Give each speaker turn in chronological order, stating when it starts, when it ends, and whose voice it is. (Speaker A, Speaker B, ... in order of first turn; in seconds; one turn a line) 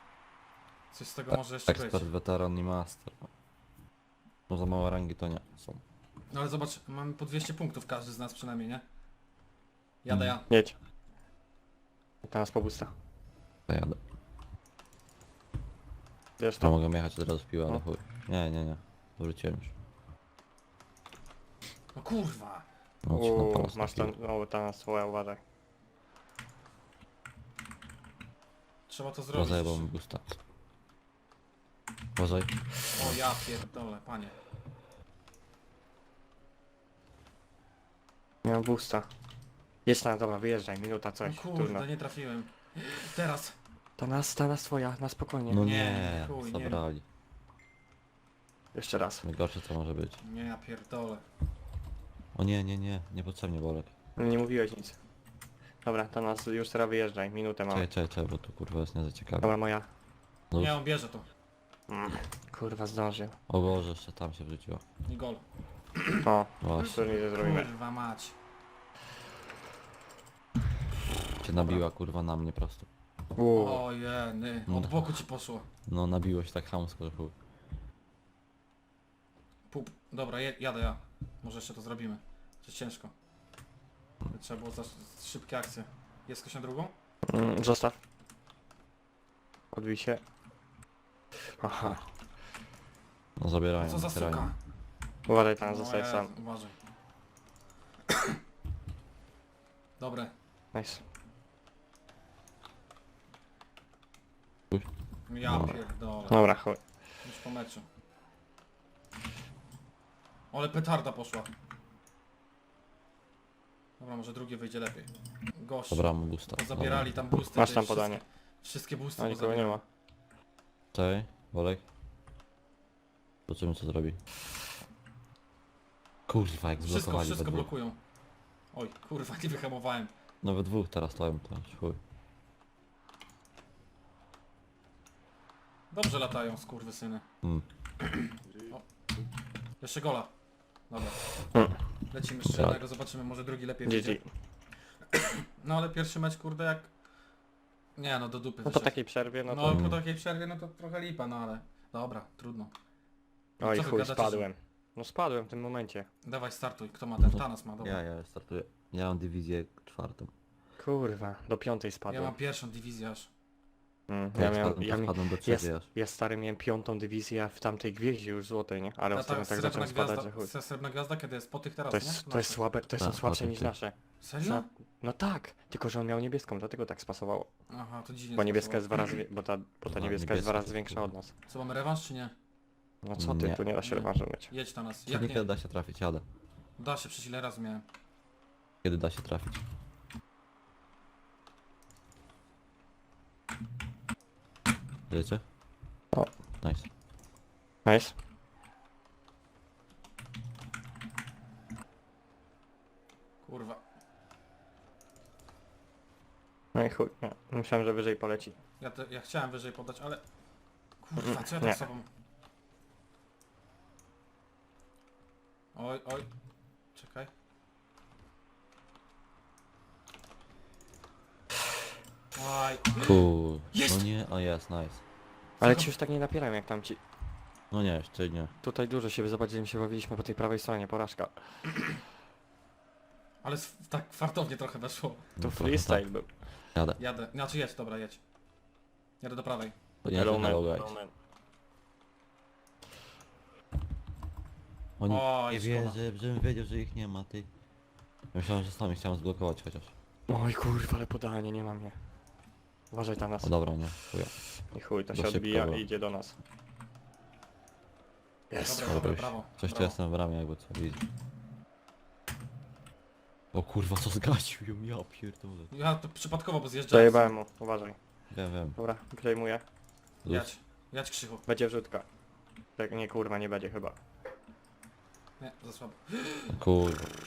Speaker A: 0.9-2.1
Speaker B: 1.3-3.3
Speaker B: 4.5-5.8
Speaker A: 6.3-8.8
Speaker A: 10.0-10.5
Speaker B: 10.1-10.4
Speaker C: 10.5-10.7
Speaker C: 12.2-12.9
Speaker B: 13.7-14.0
Speaker C: 16.4-16.8
Speaker B: 16.6-19.7
Speaker A: 21.9-22.6
Speaker B: 23.0-24.1
Speaker C: 23.1-25.4
Speaker A: 28.9-29.9
Speaker B: 29.3-30.4
Speaker B: 32.1-33.2
Speaker A: 32.9-34.3
Speaker C: 38.4-39.1
Speaker C: 39.9-41.9
Speaker A: 41.2-43.5
Speaker C: 44.0-45.6
Speaker B: 45.5-47.0
Speaker A: 45.6-46.8
Speaker C: 48.7-49.2
Speaker B: 49.2-50.2
Speaker A: 50.2-51.2
Speaker B: 52.3-53.9
Speaker C: 54.2-55.0
Speaker C: 55.8-57.9
Speaker B: 57.7-59.5
Speaker C: 59.4-59.9
Speaker B: 60.5-60.8
Speaker A: 60.6-61.2
Speaker C: 61.9-63.3
Speaker B: 63.5-64.8
Speaker A: 65.0-65.4
Speaker A: 66.0-66.2
Speaker C: 66.2-67.7
Speaker B: 66.6-67.1
Speaker A: 66.8-68.3
Speaker B: 71.4-72.9
Speaker C: 73.3-73.8
Speaker A: 73.5-75.6
Speaker B: 74.7-75.1
Speaker B: 75.8-77.3
Speaker A: 79.7-83.1
Speaker A: 84.3-86.9
Speaker C: 87.3-88.0
Speaker C: 89.7-90.2
Speaker C: 91.6-92.0
Speaker B: 93.4-94.5
Speaker A: 93.8-94.5
Speaker C: 95.3-96.3
Speaker A: 95.6-96.7
Speaker A: 100.0-100.3
Speaker C: 100.7-101.0
Speaker A: 105.3-106.4
Speaker B: 105.4-105.8
Speaker C: 106.3-106.8
Speaker A: 107.2-107.8
Speaker A: 110.5-111.5
Speaker A: 114.0-119.8
Speaker B: 115.9-117.4
Speaker C: 117.5-118.2
Speaker C: 119.2-119.8
Speaker B: 120.9-121.8
Speaker B: 123.5-124.2
Speaker B: 126.3-127.7
Speaker A: 126.8-128.0
Speaker A: 128.7-130.1
Speaker B: 130.4-132.0
Speaker A: 135.9-137.2
Speaker A: 139.8-140.3
Speaker A: 140.9-141.3
Speaker A: 142.1-144.2
Speaker B: 142.4-142.8
Speaker C: 143.8-144.2
Speaker A: 145.1-146.9
Speaker A: 148.0-148.9
Speaker C: 148.6-149.8
Speaker A: 149.5-152.7
Speaker B: 149.6-150.0
Speaker C: 153.6-156.1
Speaker A: 153.6-154.4
Speaker A: 156.2-158.0
Speaker B: 157.2-160.3
Speaker C: 160.8-162.3
Speaker A: 162.1-163.3
Speaker C: 164.1-170.5
Speaker B: 164.3-165.9
Speaker A: 169.1-172.6
Speaker C: 171.9-177.5
Speaker B: 173.0-173.8
Speaker A: 174.2-174.7
Speaker A: 177.7-179.0
Speaker C: 178.3-181.3
Speaker B: 179.8-181.1
Speaker A: 181.5-182.3
Speaker C: 183.0-184.5
Speaker B: 183.2-183.6
Speaker A: 183.8-185.4
Speaker B: 185.1-186.2
Speaker A: 186.8-187.8
Speaker B: 188.8-189.6
Speaker B: 195.1-195.4
Speaker B: 196.6-196.9
Speaker C: 197.8-198.1
Speaker A: 203.4-203.8
Speaker C: 206.7-208.6
Speaker A: 208.8-210.2
Speaker A: 211.0-212.1
Speaker C: 211.2-211.8
Speaker A: 215.7-216.3
Speaker A: 216.9-217.3
Speaker A: 222.3-224.1
Speaker B: 223.0-225.0
Speaker C: 225.6-227.0
Speaker A: 225.6-225.9
Speaker B: 227.7-228.5
Speaker C: 228.6-231.6
Speaker A: 233.4-235.2
Speaker B: 235.4-236.1
Speaker C: 235.4-236.3
Speaker B: 236.7-237.0
Speaker A: 237.0-238.2
Speaker A: 239.2-239.7
Speaker B: 240.0-240.9
Speaker C: 240.1-241.1
Speaker B: 245.0-247.5
Speaker A: 245.1-246.0
Speaker B: 248.3-249.9
Speaker C: 250.3-252.0
Speaker C: 252.9-253.5
Speaker B: 253.4-254.3
Speaker C: 254.7-256.3
Speaker B: 255.1-255.8
Speaker C: 258.5-259.0
Speaker A: 258.6-259.9
Speaker B: 258.8-261.0
Speaker B: 263.5-265.7
Speaker A: 265.7-267.4
Speaker C: 266.9-267.9
Speaker B: 268.3-268.8
Speaker C: 268.8-269.6
Speaker B: 270.2-270.5
Speaker A: 270.2-271.4
Speaker C: 271.4-272.0
Speaker C: 272.8-274.0
Speaker A: 275.4-276.6
Speaker B: 276.5-277.1